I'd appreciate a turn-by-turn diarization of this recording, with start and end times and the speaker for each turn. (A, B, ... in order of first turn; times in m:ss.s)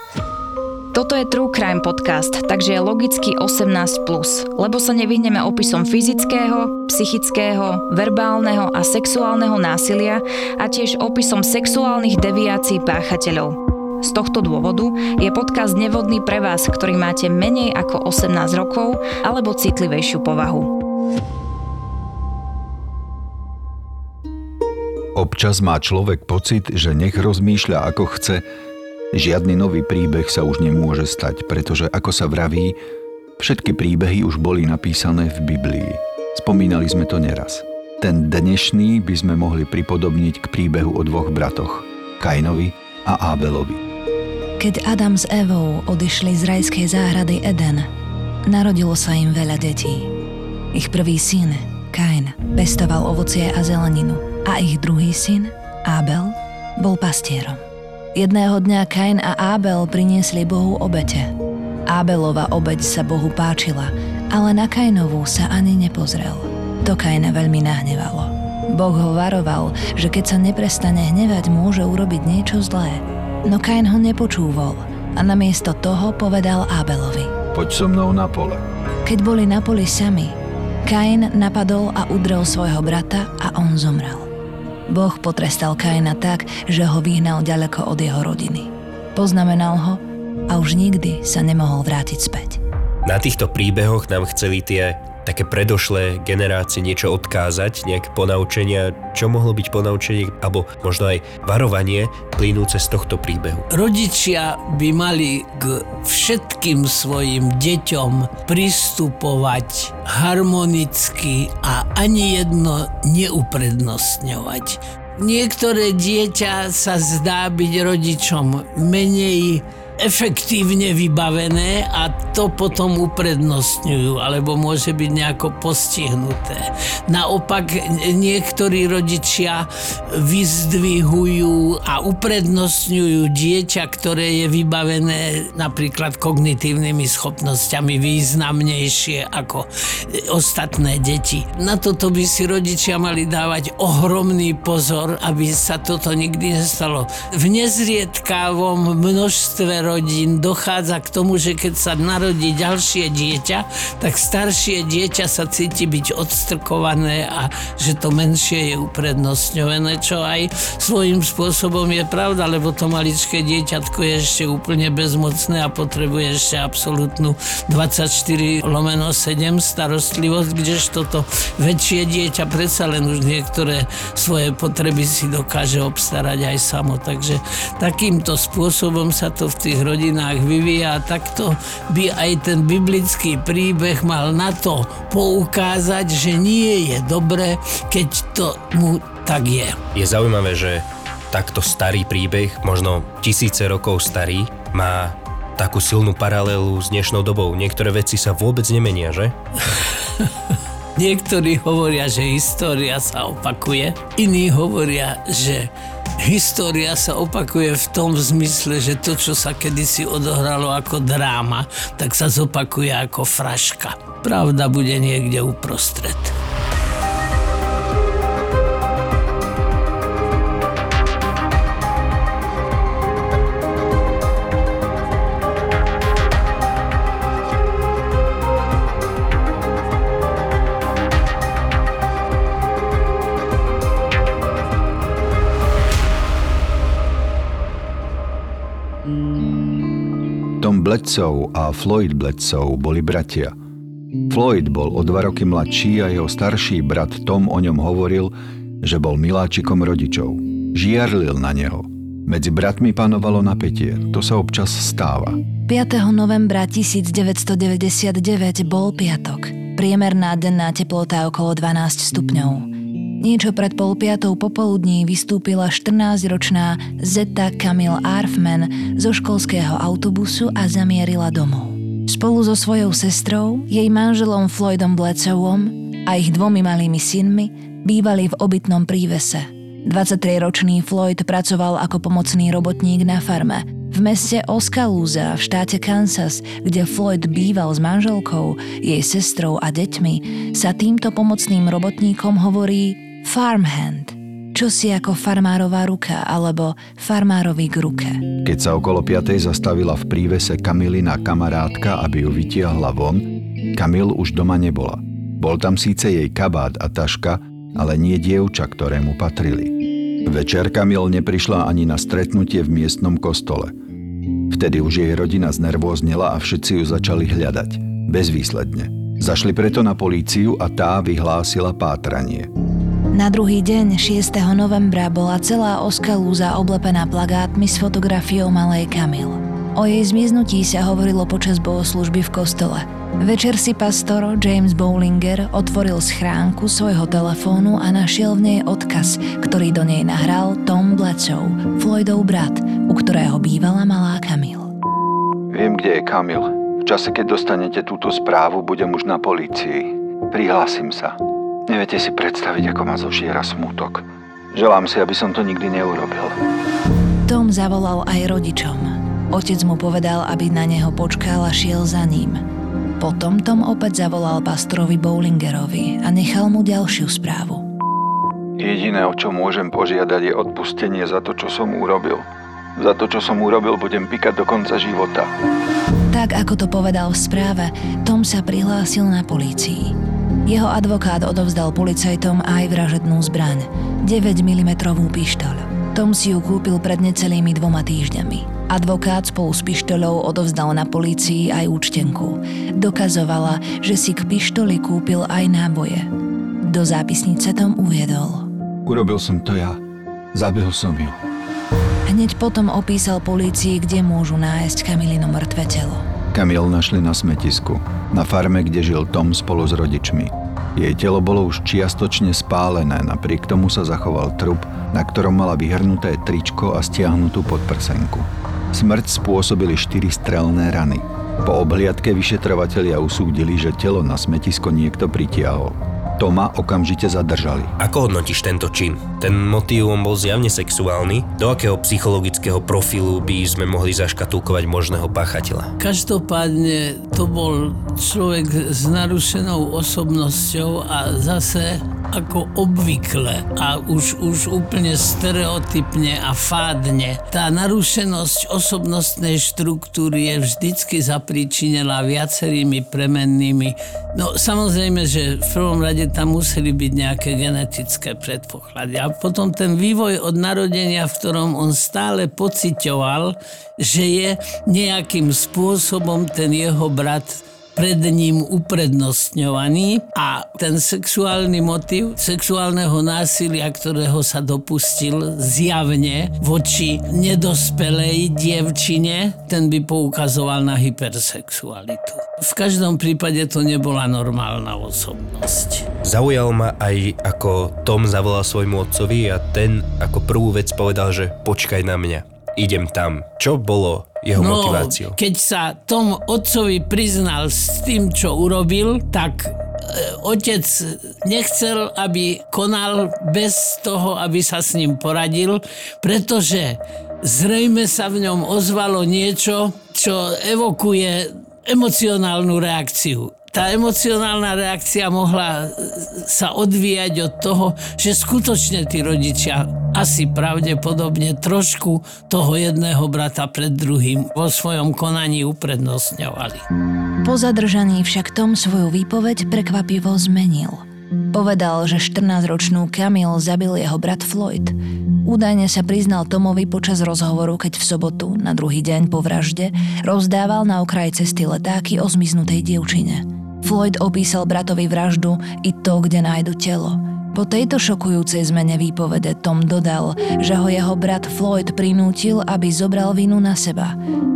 0:00.9-0:20.7 A
0:25.1-0:28.4 B
0:29.1-0:32.8 B
0:33.4-0:43.8 B
0:44.6-0:47.9 C
0:48.4-0:50.1 C
0:50.7-0:57.6 C
0:58.1-1:01.3 C
1:01.9-1:17.3 C
1:17.5-1:18.6 B
1:19.0-1:24.3 C
1:24.9-1:32.6 C
1:33.0-1:43.7 D
1:43.7-3:09.8 E
3:09.9-3:19.4 D
3:21.0-3:36.4 E
4:00.6-4:03.5 B
4:04.3-4:15.4 B
4:15.7-4:58.3 C
4:58.4-5:13.7 B
5:14.5-5:22.5 B
5:23.1-5:44.7 C
5:45.5-5:56.4 B
5:57.2-6:02.4 C
6:03.0-6:07.7 C
6:08.6-6:15.3 B
6:16.1-6:36.1 C
6:36.6-6:38.5 C
6:38.8-6:39.8 B
6:40.3-6:41.2 B
6:42.1-6:46.1 C
6:46.3-7:07.8 B
7:07.8-7:15.7 D
7:15.8-8:05.9 E
8:06.0-8:15.2 D
8:14.3-8:46.6 E
8:47.2-9:14.0 C